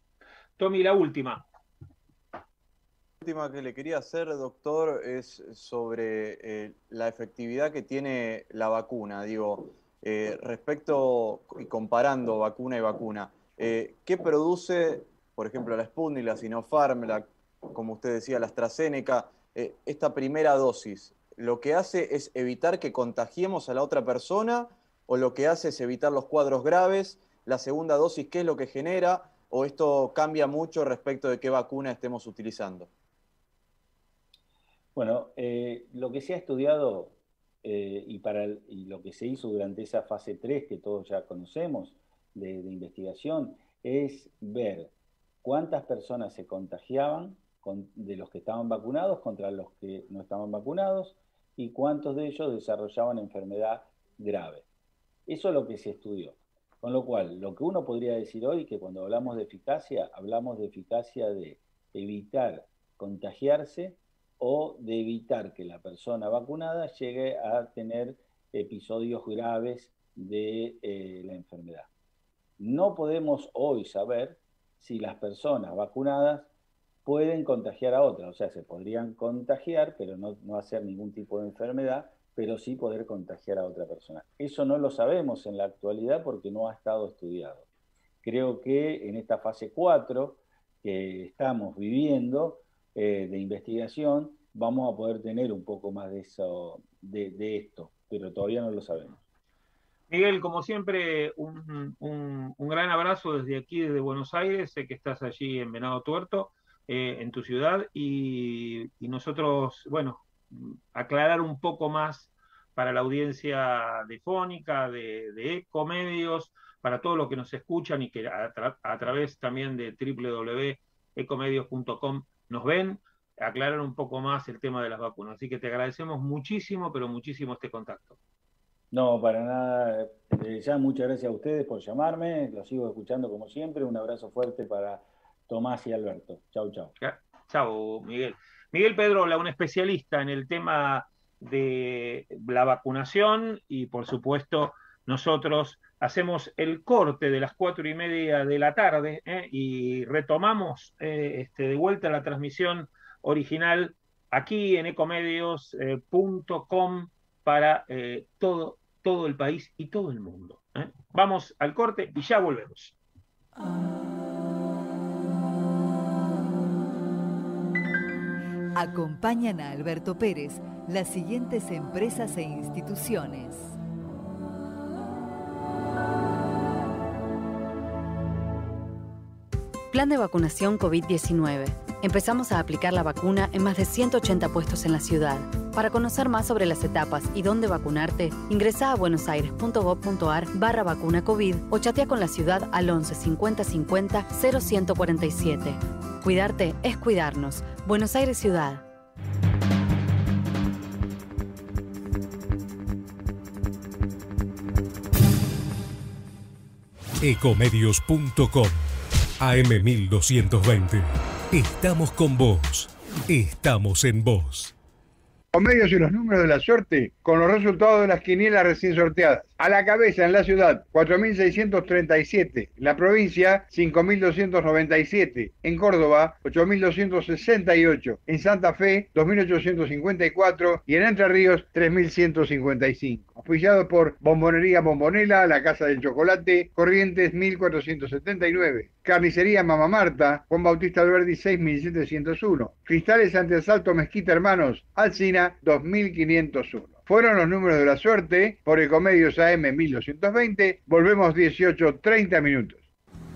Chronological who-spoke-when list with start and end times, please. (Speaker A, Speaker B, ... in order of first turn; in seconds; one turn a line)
Speaker A: 0.6-1.4
Speaker B: 3.2-32.9
Speaker C: 35.0-44.9
Speaker C: 45.4-54.6
Speaker C: 55.3-71.9
Speaker C: 72.6-76.5
Speaker C: 77.1-87.7
Speaker C: 88.2-99.1
Speaker A: 100.1-128.2
Speaker C: 128.9-136.9
Speaker A: 137.0-163.0
Speaker D: 168.8-173.8
Speaker E: 179.9-198.8
Speaker F: 207.2-208.8
Speaker F: 209.4-214.7
Speaker G: 215.5-252.8